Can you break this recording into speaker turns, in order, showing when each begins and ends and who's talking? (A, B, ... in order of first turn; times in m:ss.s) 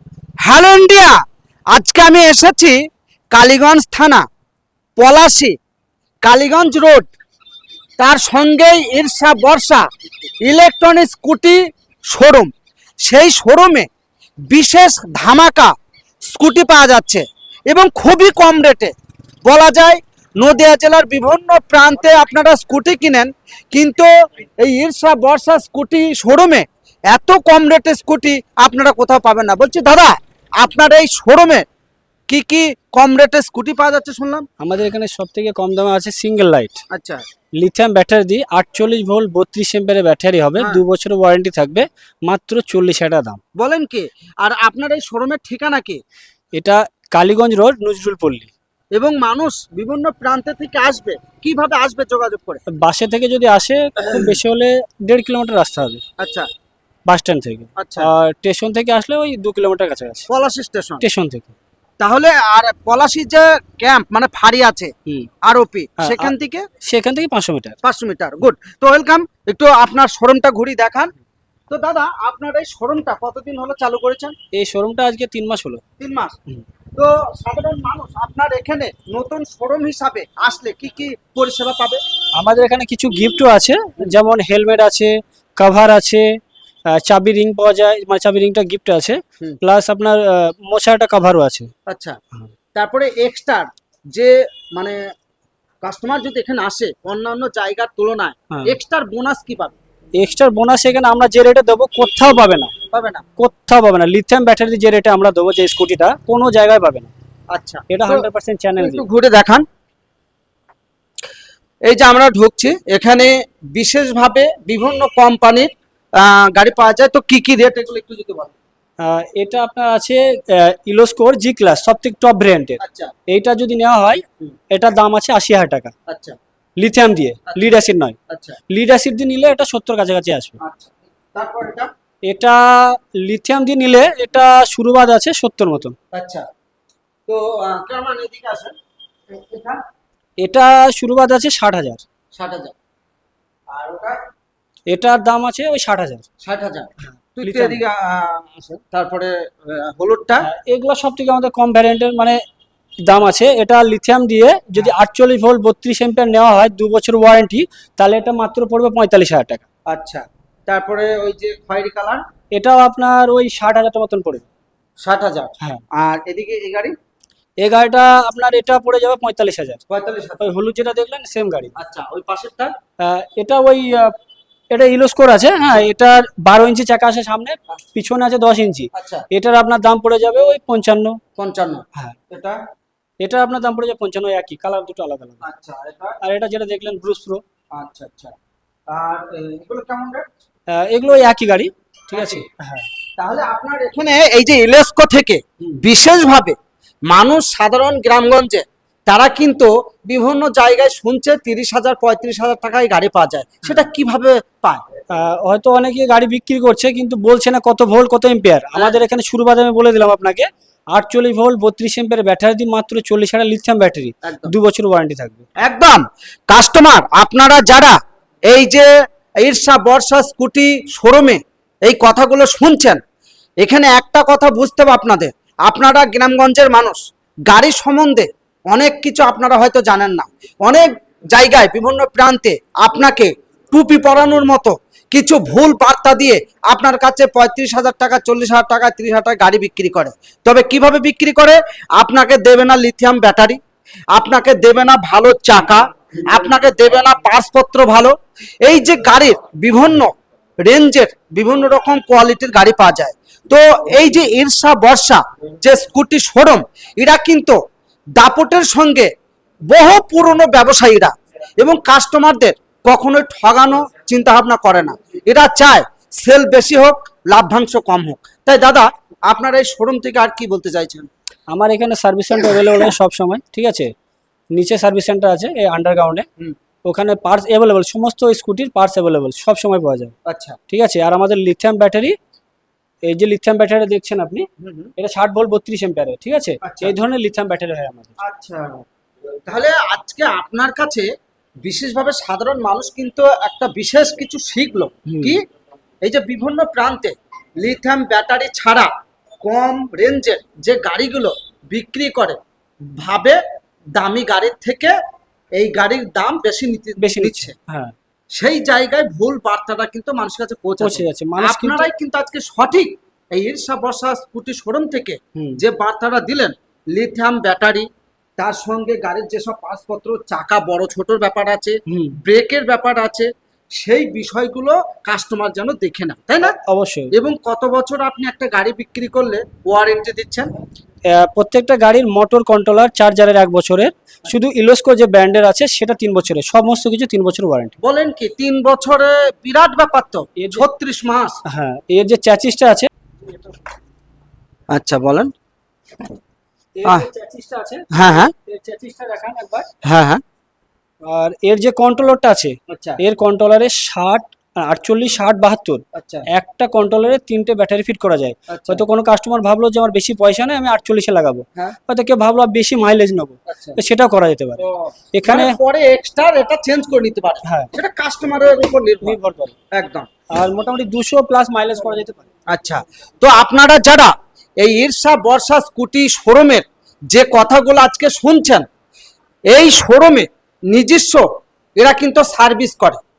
0:00.4-0:04.2 A
0:05.0-0:05.6 A
0:06.2-0:07.1 A
0:08.0-0:09.9 A
0:10.4-0:12.5 A
0:13.0-0:13.9 A
0:14.5-0:15.7 A
0:16.3-0:18.9 A
0:19.4-0:31.7 A
0:32.3-0:34.5 A
0:34.6-0:36.8 B
0:36.9-0:37.2 A
0:37.6-0:43.4 B
0:40.6-0:40.8 A
0:43.6-0:46.0 A
0:46.6-0:48.5 B
0:48.9-0:52.6 A
0:52.7-0:56.0 B
0:56.2-0:56.5 A
0:57.1-1:00.3 B
0:57.8-0:58.1 A
1:00.3-1:01.0 A
1:01.0-1:01.5 B
1:02.0-1:06.6 A
1:06.0-1:06.3 B
1:06.8-1:07.8 B
1:07.8-1:11.1 A
1:11.7-1:14.4 A
1:14.5-1:15.8 B
1:16.0-1:16.4 A
1:16.9-1:22.0 A
1:22.4-1:26.4 B
1:26.9-1:31.7 B
1:31.9-1:32.2 A
1:32.8-1:35.0 A
1:35.8-1:39.8 A
1:38.5-1:38.8 B
1:40.2-1:42.7 B
1:42.9-1:43.2 A
1:43.4-1:47.1 B
1:47.5-1:48.3 A
1:47.9-1:49.0 B
1:48.8-1:49.6 A
1:51.8-1:58.6 A
1:59.0-2:05.9 B
2:02.8-2:03.1 A
2:06.1-2:06.4 A
2:06.8-2:08.2 B
2:08.3-2:08.6 A
2:08.7-2:10.6 B
2:10.6-2:11.9 A
2:12.3-2:16.0 B
2:16.1-2:16.4 A
2:17.3-2:18.8 A
2:19.3-2:19.8 A
2:20.4-2:22.0 B
2:22.4-2:22.7 A
2:23.7-2:24.2 A
2:24.9-2:26.2 B
2:26.4-2:30.5 A
2:27.2-2:27.8 B
2:30.4-2:32.4 B
2:33.0-2:39.6 B
2:39.9-2:42.2 A
2:42.5-2:44.5 B
2:45.0-2:46.9 A
2:47.6-2:49.8 B
2:49.9-2:50.4 A
2:50.4-2:51.7 B
2:51.8-2:52.8 A
2:53.0-2:54.1 B
2:54.7-3:01.2 B
2:58.9-2:59.2 A
3:01.4-3:02.6 A
3:03.2-3:05.4 B
3:05.4-3:06.2 A
3:06.2-3:07.4 B
3:07.8-3:08.3 A
3:08.9-3:10.3 A
3:10.7-3:12.9 B
3:12.1-3:12.4 A
3:13.2-3:16.6 A
3:17.1-3:24.8 A
3:25.1-3:35.4 B
3:34.2-3:34.5 A
3:35.6-3:38.0 A
3:38.5-3:43.0 A
3:43.6-4:03.6 A
4:04.1-4:17.6 A
4:18.2-4:19.1 A
4:19.7-4:31.1 A
4:31.5-4:33.9 B
4:34.5-4:36.3 B
4:36.9-4:40.1 B
4:40.3-4:40.6 A
4:40.7-4:42.2 B
4:43.1-4:48.2 B
4:44.6-4:44.9 A
4:46.6-4:46.9 A
4:48.2-4:48.8 A
4:49.5-4:51.1 A
4:51.6-4:55.4 A
4:55.1-4:55.4 B
4:56.0-4:58.9 A
4:59.4-5:02.4 A
5:03.0-5:03.4 A
5:04.0-5:05.0 A
5:05.6-5:07.6 A
5:07.0-5:08.0 B
5:08.4-5:17.9 A
5:10.8-5:11.9 B
5:18.4-5:26.6 A
5:21.9-5:22.2 B
5:26.6-5:27.1 B
5:27.1-5:30.5 A
5:31.1-5:37.8 B
5:37.8-5:41.4 A
5:40.4-5:40.6 B
5:41.5-5:43.4 B
5:44.7-5:45.3 A
5:46.8-5:49.7 B
5:47.9-5:48.3 A
5:49.8-5:50.2 A
5:51.1-6:04.6 B
5:52.7-5:53.0 A
5:55.9-5:56.3 A
5:58.5-5:58.8 A
6:03.5-6:03.8 A
6:04.6-6:09.2 A
6:05.1-6:05.6 B
6:07.4-6:07.7 B
6:09.0-6:09.6 B
6:09.7-6:10.1 A
6:10.3-6:12.3 B
6:12.5-6:18.7 A
6:19.5-6:21.3 A
6:21.8-6:23.0 A